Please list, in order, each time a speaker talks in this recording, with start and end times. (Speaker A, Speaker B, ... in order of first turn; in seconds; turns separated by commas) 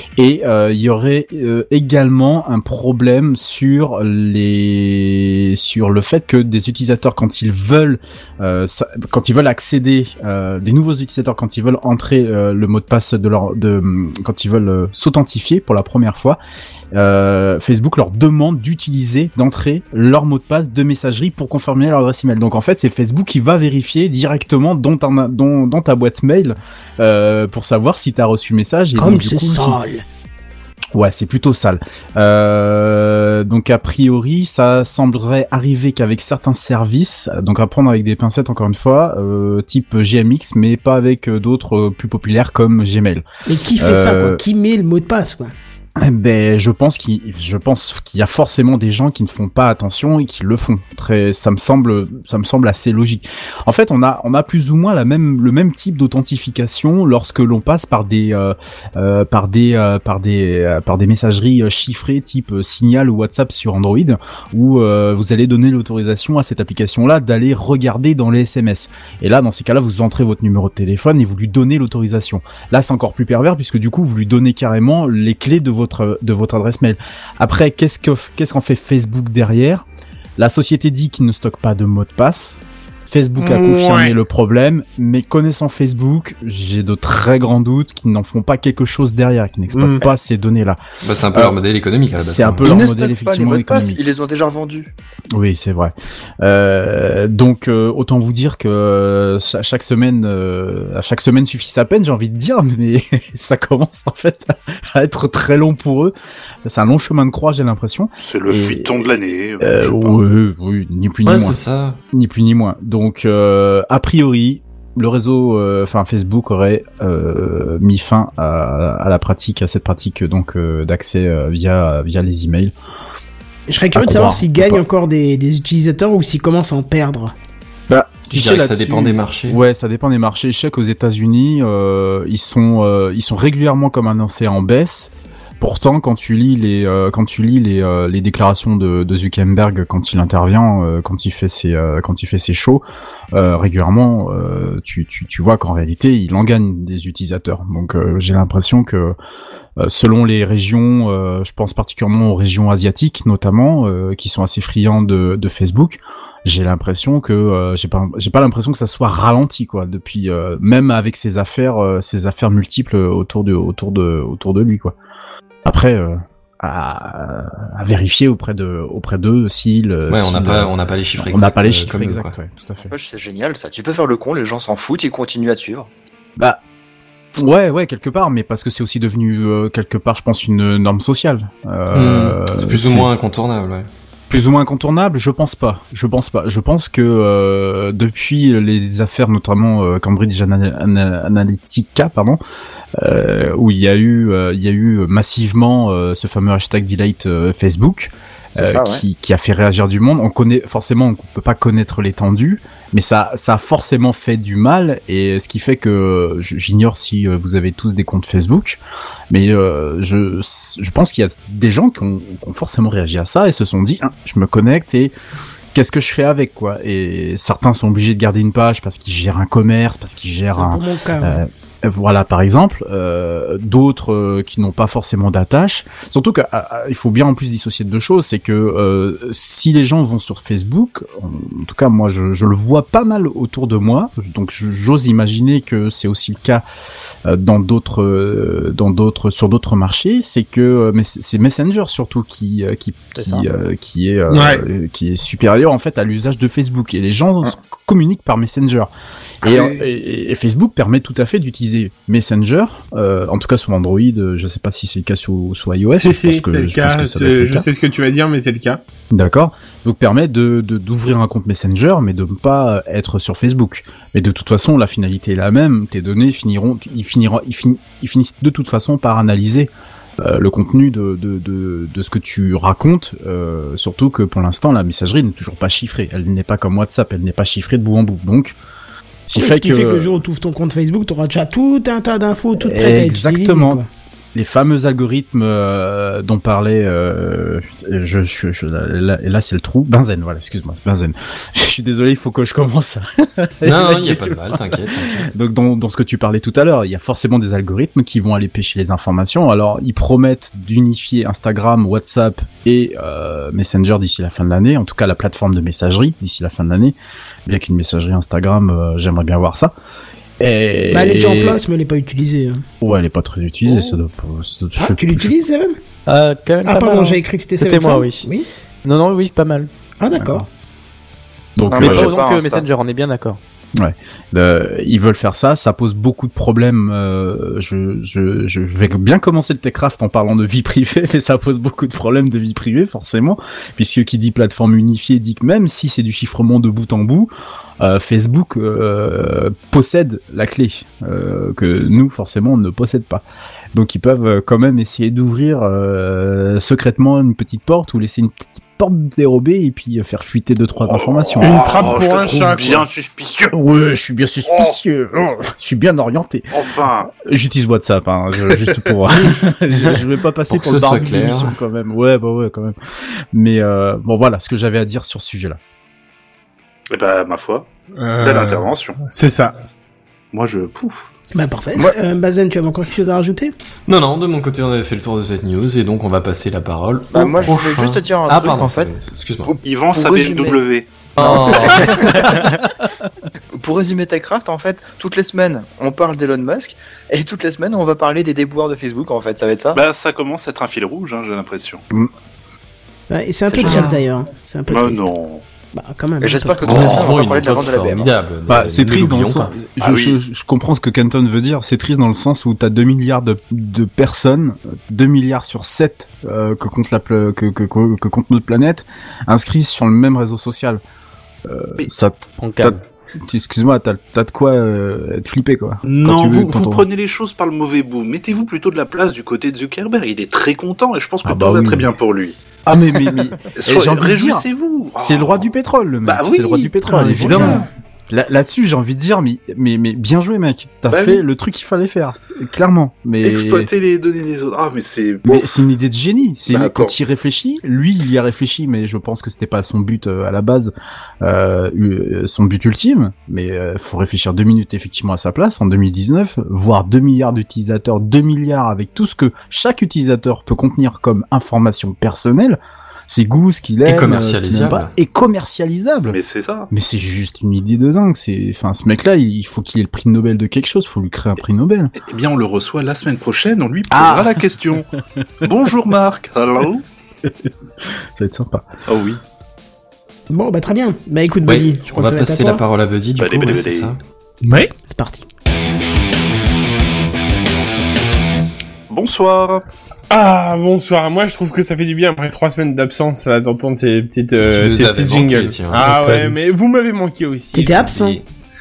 Speaker A: 0.1-16.4, Speaker A: 16.9-29.8, Speaker B: 28.9-30.0, Speaker A: 30.9-43.2, Speaker B: 43.5-45.5, Speaker A: 43.8-44.4, Speaker A: 46.0-79.8, Speaker A: 80.4-90.8, Speaker C: 83.4-84.2, Speaker C: 89.7-90.0, Speaker D: 91.0-92.7, Speaker A: 91.3-91.6, Speaker A: 92.1-94.0, Speaker E: 92.6-94.9, Speaker A: 95.3-106.1, Speaker A: 106.6-109.0, Speaker F: 108.2-110.1, Speaker A: 109.6-111.6, Speaker D: 111.2-112.0, Speaker A: 112.1-122.7, Speaker B: 123.7-127.3, Speaker A: 123.9-124.8, Speaker A: 127.9-149.1, Speaker D: 128.3-129.6, Speaker A: 149.8-164.9, Speaker A: 165.6-172.9, Speaker D: 170.1-172.3, Speaker E: 172.8-175.9, Speaker A: 177.3-183.1, Speaker D: 181.9-183.9, Speaker A: 184.3-192.4, Speaker A: 192.9-215.1, Speaker E: 198.5-199.0, Speaker A: 215.7-236.6, Speaker B: 220.5-221.4, Speaker A: 237.2-248.9, Speaker G: 243.2-243.4, Speaker C: 244.3-244.6, Speaker A: 249.4-257.7, Speaker F: 249.5-249.7, Speaker C: 255.9-258.8, Speaker A: 259.1-278.6, Speaker A: 279.2-280.2, Speaker B: 279.3-283.9, Speaker A: 282.6-283.8, Speaker A: 284.3-309.7, Speaker D: 293.6-295.3, Speaker A: 310.4-311.6, Speaker B: 310.9-312.6, Speaker A: 312.8-315.3, Speaker G: 313.7-313.9, Speaker B: 314.8-315.7, Speaker G: 316.1-318.2, Speaker B: 316.6-318.4, Speaker G: 318.8-319.7, Speaker B: 320.0-320.4, Speaker A: 320.1-320.5, Speaker A: 321.6-322.1, Speaker E: 321.7-322.6, Speaker G: 321.7-323.4, Speaker A: 323.8-351.8, Speaker F: 350.9-353.5, Speaker C: 351.4-352.8, Speaker A: 353.5-356.5, Speaker F: 356.5-357.1, Speaker A: 357.1-362.8, Speaker D: 360.5-361.6, Speaker A: 363.3-365.6, Speaker F: 366.9-367.7, Speaker C: 368.0-369.5, Speaker F: 368.2-369.0, Speaker F: 370.3-371.1, Speaker B: 371.3-373.5, Speaker D: 373.9-379.5, Speaker E: 377.1-378.9, Speaker E: 379.4-380.6, Speaker F: 379.6-381.1, Speaker E: 381.1-382.4, Speaker D: 381.2-382.2, Speaker G: 381.9-382.4, Speaker E: 383.6-389.8, Speaker F: 389.7-391.8, Speaker B: 393.1-395.1, Speaker E: 393.5-394.0, Speaker F: 394.7-395.4, Speaker B: 395.7-396.8, Speaker E: 396.2-398.1, Speaker D: 396.6-399.5, Speaker A: 398.5-410.8, Speaker F: 399.8-400.2, Speaker A: 411.4-416.9, Speaker G: 412.4-412.8, Speaker F: 415.8-422.4, Speaker A: 421.2-421.9, Speaker A: 422.6-424.4, Speaker F: 423.6-425.5, Speaker A: 425.0-433.7, Speaker F: 426.1-427.7, Speaker F: 430.9-431.2, Speaker F: 433.2-435.4, Speaker A: 435.2-456.2, Speaker F: 436.5-436.9, Speaker D: 453.8-454.9, Speaker F: 456.1-456.7, Speaker A: 456.7-461.9, Speaker F: 461.9-464.9, Speaker A: 463.9-464.4, Speaker F: 465.4-466.8, Speaker A: 467.2-468.7, Speaker F: 468.9-469.2, Speaker B: 470.3-472.6, Speaker D: 471.4-474.0, Speaker F: 473.2-473.9, Speaker C: 474.4-474.7, Speaker B: 474.8-475.2, Speaker F: 478.9-479.6, Speaker C: 480.1-488.2, Speaker D: 484.4-485.9, Speaker G: 485.8-486.3, Speaker B: 487.5-488.2